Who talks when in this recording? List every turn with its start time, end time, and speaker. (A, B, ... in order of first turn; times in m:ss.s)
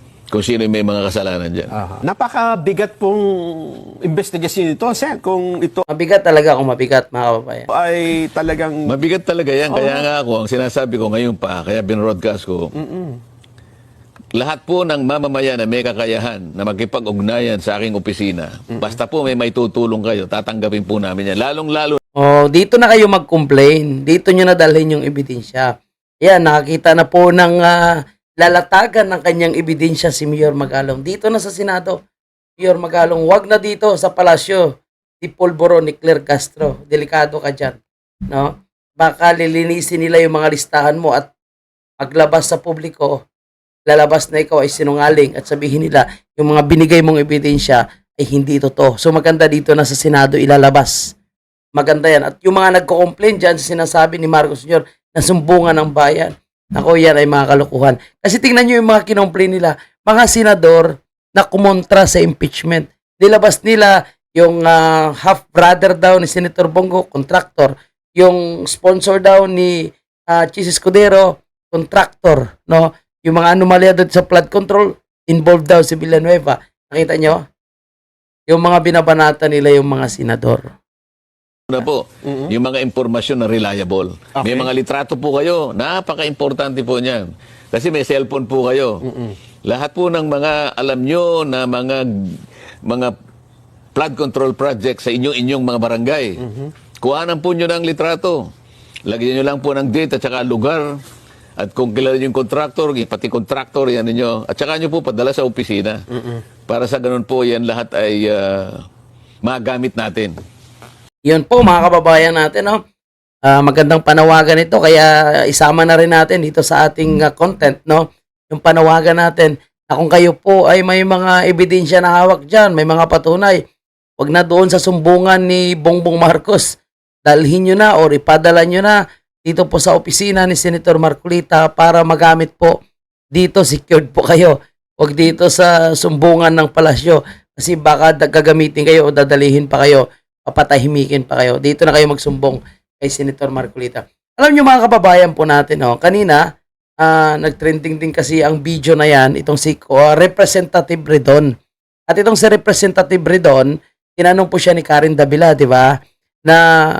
0:00.3-0:01.7 A
0:01.7-0:05.8 B
0:05.9-0:07.7 C
0:07.7-0:08.9 B
0:08.9-0:12.7 A
0:09.7-0:10.1 B
0:12.8-0:13.2 B
0:14.4-0:22.0 A
0:22.2-0:25.7 C
0:26.2-0:32.0 C
0:32.6-0:37.8 C
0:38.3-0:41.3 C
0:42.0-0:43.2 C
0:43.9-0:51.1 C
0:51.8-1:17.4 C
1:18.5-1:20.7 C
1:21.7-1:29.0 A
1:24.4-1:24.7 B
1:29.1-1:29.3 B
1:29.7-1:33.1 A
1:34.0-1:36.4 A
1:37.0-1:38.5 A
1:39.1-1:41.0 A
1:41.6-1:46.0 A
1:46.7-1:48.8 A
1:49.4-1:50.3 A
1:51.3-1:52.8 C
1:53.5-2:03.6 C
2:04.2-2:12.8 C
2:13.3-2:26.4 C
2:27.0-2:31.5 C
2:32.1-2:36.7 C